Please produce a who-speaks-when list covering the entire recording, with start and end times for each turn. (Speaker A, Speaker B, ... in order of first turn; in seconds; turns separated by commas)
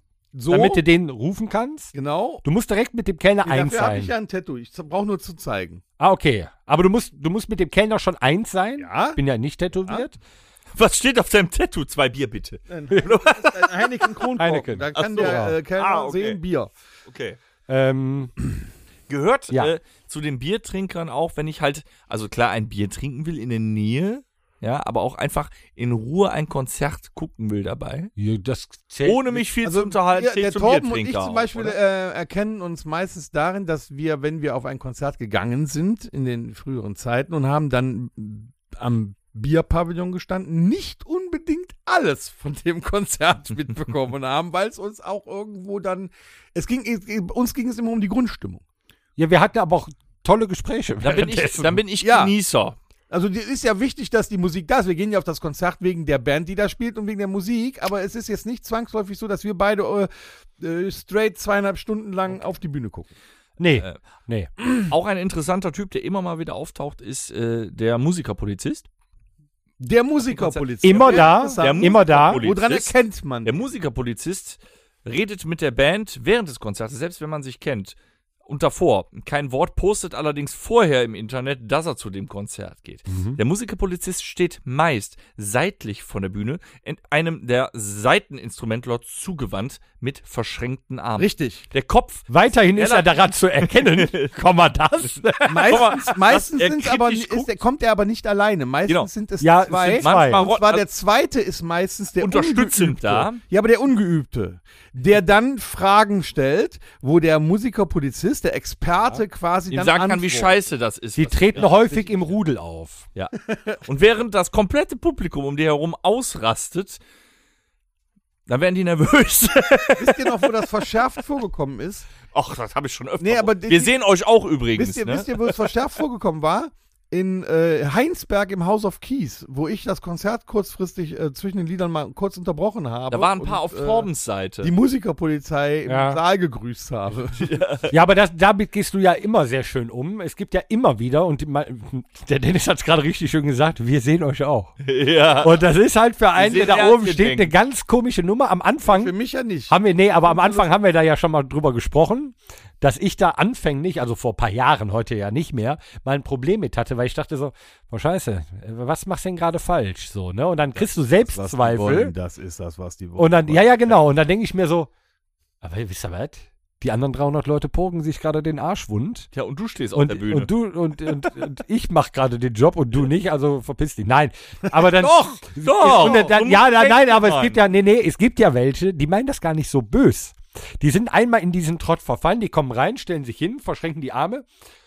Speaker A: 0.3-0.8, Speaker B: 0.5-4.1, Speaker A: 1.9-2.4, Speaker A: 3.4-5.8, Speaker B: 6.0-10.2, Speaker A: 8.8-9.2, Speaker C: 10.8-14.2, Speaker A: 12.7-16.7, Speaker B: 14.4-15.5, Speaker C: 14.9-16.4, Speaker C: 17.1-17.4, Speaker B: 17.7-18.4, Speaker C: 19.1-28.1, Speaker B: 28.2-29.4, Speaker C: 29.0-31.8, Speaker A: 29.6-48.6, Speaker B: 49.2-51.8, Speaker C: 51.0-52.8, Speaker A: 52.0-52.3, Speaker A: 53.1-63.1, Speaker B: 63.6-64.5, Speaker C: 64.7-68.8, Speaker A: 69.8-73.6, Speaker C: 70.3-94.3, Speaker B: 70.8-72.4, Speaker A: 91.2-91.7, Speaker B: 92.3-96.0, Speaker A: 95.5-110.5, Speaker C: 95.6-97.5, Speaker B: 99.4-100.4, Speaker C: 100.0-100.8, Speaker C: 102.2-103.4, Speaker C: 109.7-112.0, Speaker B: 111.2-113.1, Speaker A: 111.6-112.1, Speaker C: 113.2-117.0, Speaker A: 113.5-113.8, Speaker C: 118.5-120.3, Speaker A: 120.0-122.1, Speaker C: 122.3-125.6, Speaker A: 123.2-123.9, Speaker A: 124.7-134.1, Speaker C: 133.1-134.7, Speaker A: 134.6-137.5, Speaker B: 135.8-136.2, Speaker C: 137.4-137.9, Speaker B: 137.9-144.7, Speaker C: 144.8-145.6, Speaker B: 145.4-149.1, Speaker C: 146.3-147.5, Speaker A: 148.8-150.7, Speaker B: 149.7-162.1, Speaker A: 161.2-163.7, Speaker B: 163.2-164.9, Speaker B: 165.6-169.3, Speaker C: 169.3-170.5, Speaker B: 169.9-184.4, Speaker C: 175.0-177.6, Speaker A: 175.9-176.2